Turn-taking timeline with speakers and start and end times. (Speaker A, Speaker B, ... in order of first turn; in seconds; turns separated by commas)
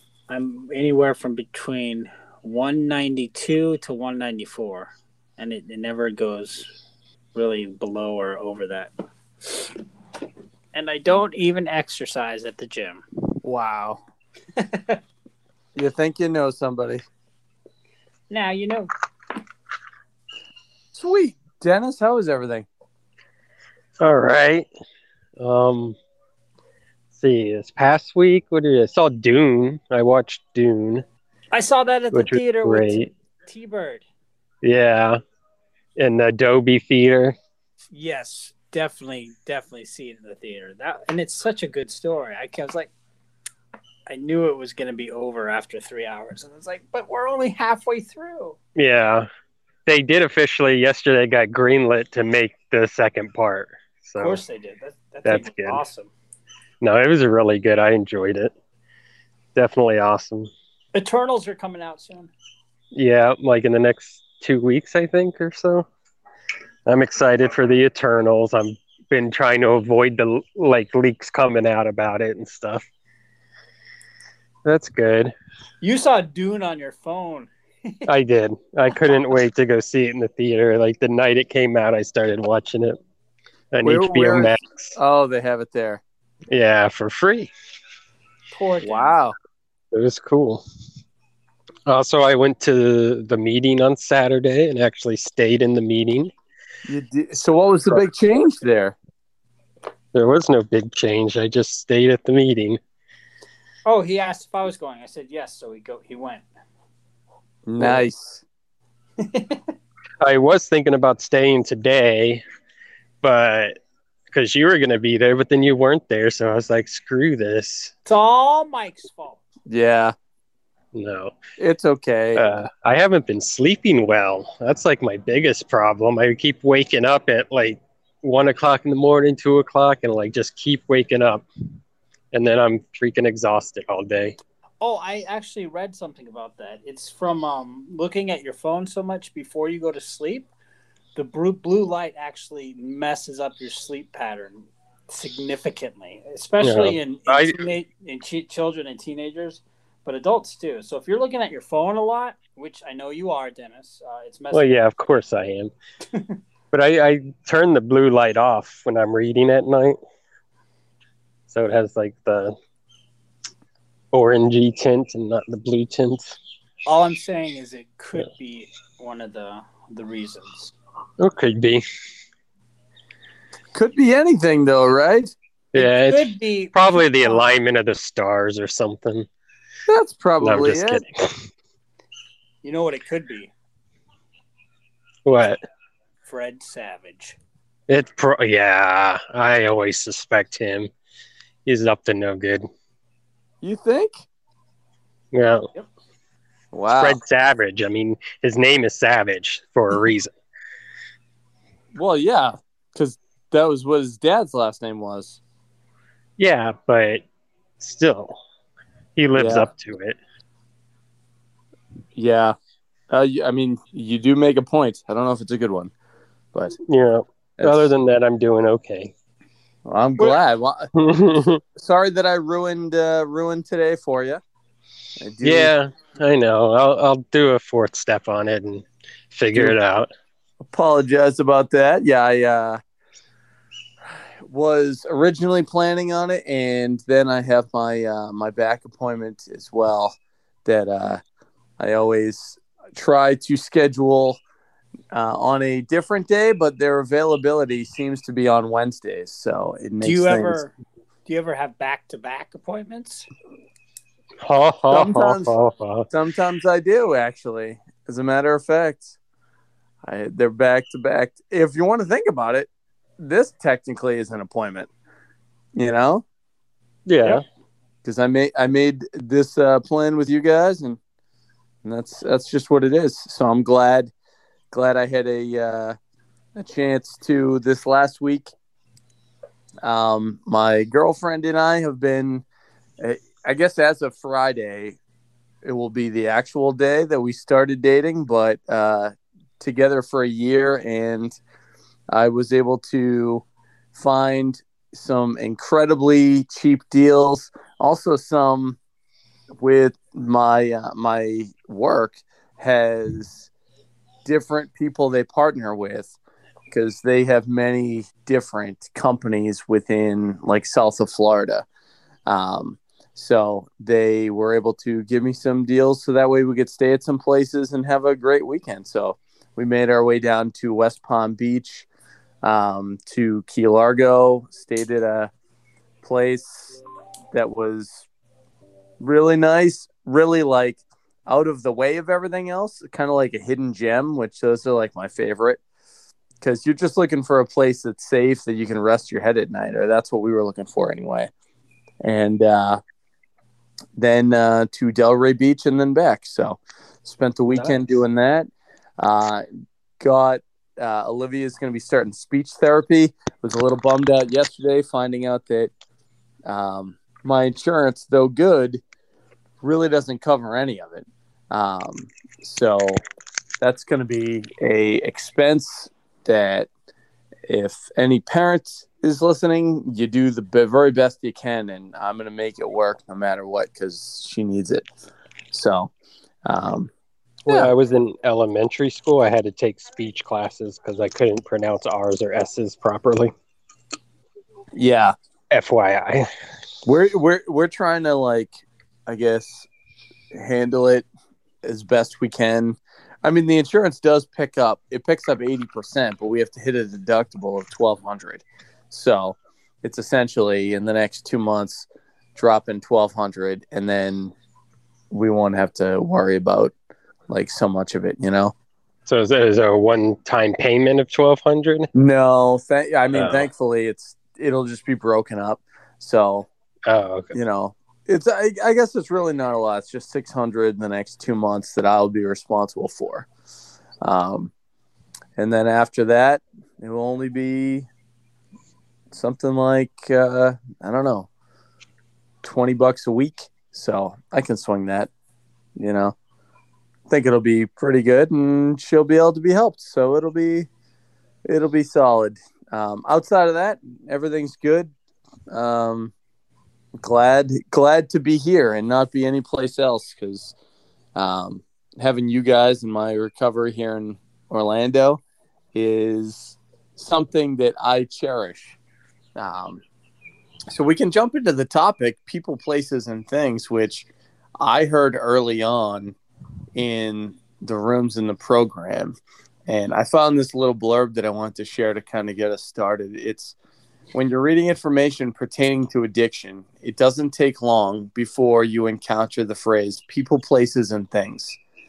Speaker A: 0.3-6.7, Speaker A: 7.3-8.9, Speaker A: 10.7-14.0, Speaker A: 14.6-15.0, Speaker B: 15.7-17.0, Speaker A: 18.3-18.9, Speaker B: 20.9-22.7, Speaker C: 24.0-24.7, Speaker C: 25.4-25.9, Speaker C: 27.1-31.0, Speaker A: 31.5-34.0, Speaker C: 32.1-33.1, Speaker C: 34.6-35.2, Speaker C: 36.0-37.4, Speaker A: 37.9-42.9, Speaker A: 44.1-48.6, Speaker C: 48.8-49.3, Speaker C: 49.9-54.4, Speaker A: 54.2-56.1, Speaker C: 55.2-55.8, Speaker C: 56.8-58.5, Speaker C: 59.5-60.5, Speaker A: 60.9-62.3, Speaker C: 62.9-65.8, Speaker C: 66.8-72.8, Speaker C: 74.6-75.3, Speaker A: 75.8-78.0, Speaker C: 78.1-83.0, Speaker C: 83.7-84.9, Speaker B: 83.8-86.0, Speaker C: 86.5-87.5, Speaker A: 88.5-89.1, Speaker B: 88.8-89.3, Speaker C: 89.9-90.6, Speaker C: 91.9-96.3, Speaker B: 96.9-99.0, Speaker C: 100.1-102.8, Speaker A: 103.8-106.5, Speaker B: 107.7-108.4, Speaker A: 107.8-108.0, Speaker A: 109.2-109.6, Speaker C: 110.2-112.4, Speaker C: 113.2-113.8, Speaker C: 114.3-117.9, Speaker A: 118.0-119.4, Speaker B: 119.7-120.2, Speaker C: 120.9-121.3, Speaker B: 121.6-122.4, Speaker C: 122.3-131.4, Speaker C: 132.3-134.4, Speaker A: 134.8-140.5, Speaker A: 141.1-154.8, Speaker C: 146.6-147.6, Speaker C: 154.5-155.7, Speaker C: 156.7-160.0, Speaker C: 161.5-162.5, Speaker C: 164.1-166.4, Speaker A: 166.8-170.7, Speaker C: 171.2-171.8, Speaker B: 173.7-175.3, Speaker C: 175.7-179.3, Speaker A: 175.8-177.5, Speaker B: 179.9-181.0, Speaker C: 180.4-181.3, Speaker A: 182.6-183.5, Speaker C: 185.2-185.6, Speaker A: 186.2-187.4, Speaker C: 187.9-190.9, Speaker C: 191.7-192.7, Speaker B: 193.6-194.2, Speaker C: 195.3-195.7, Speaker B: 196.7-197.2, Speaker C: 197.0-200.3, Speaker B: 201.9-205.4, Speaker C: 206.4-207.2, Speaker C: 207.8-208.3, Speaker C: 209.2-210.2, Speaker B: 209.3-209.7, Speaker B: 212.2-212.6, Speaker B: 213.1-215.9, Speaker C: 216.9-219.1, Speaker B: 217.6-217.9, Speaker B: 219.8-220.9, Speaker C: 221.0-221.6, Speaker B: 221.7-224.4, Speaker B: 225.2-225.7, Speaker C: 225.4-230.1, Speaker B: 230.6-232.8, Speaker B: 234.4-241.2, Speaker B: 241.8-244.4, Speaker B: 245.1-250.6, Speaker A: 250.0-250.7, Speaker A: 251.3-253.3, Speaker C: 254.4-256.1, Speaker B: 254.9-255.5, Speaker B: 256.1-259.2, Speaker B: 260.0-264.9, Speaker B: 265.7-266.2, Speaker C: 267.1-267.4, Speaker B: 268.0-271.0, Speaker B: 271.8-274.1, Speaker B: 274.7-276.0, Speaker B: 276.6-278.5, Speaker B: 279.8-282.4, Speaker B: 283.0-285.0, Speaker B: 285.6-291.4, Speaker B: 292.1-298.8, Speaker B: 299.6-303.5, Speaker B: 304.2-306.1, Speaker B: 306.7-311.6, Speaker B: 312.2-321.9, Speaker B: 322.4-325.3, Speaker B: 326.0-326.8, Speaker B: 327.3-328.1, Speaker B: 329.0-335.6, Speaker B: 336.4-341.3, Speaker B: 342.0-342.8, Speaker B: 343.9-349.5, Speaker C: 347.5-347.8, Speaker B: 350.0-355.7, Speaker B: 356.4-358.8, Speaker B: 359.6-363.0, Speaker B: 363.6-366.7, Speaker B: 367.5-374.9, Speaker B: 375.5-375.9, Speaker B: 376.4-376.9, Speaker B: 377.5-377.7, Speaker C: 377.5-383.3, Speaker B: 384.7-385.1, Speaker C: 385.5-386.3, Speaker B: 386.8-389.7, Speaker B: 390.3-391.1, Speaker B: 391.6-404.3, Speaker B: 405.1-406.7, Speaker B: 407.3-408.5, Speaker C: 409.1-411.9, Speaker B: 411.9-416.5, Speaker C: 413.1-413.5, Speaker C: 416.9-417.3, Speaker B: 417.3-423.3, Speaker B: 424.0-424.5, Speaker B: 425.4-427.9, Speaker B: 429.1-431.3, Speaker B: 432.4-435.1, Speaker B: 435.8-436.1, Speaker B: 437.1-440.7, Speaker B: 441.4-444.9, Speaker B: 445.5-446.1, Speaker B: 447.0-450.5, Speaker B: 451.1-455.2, Speaker B: 455.7-458.8, Speaker B: 459.4-459.8, Speaker B: 460.7-464.1, Speaker B: 464.6-466.1, Speaker B: 466.7-473.6, Speaker B: 474.1-481.6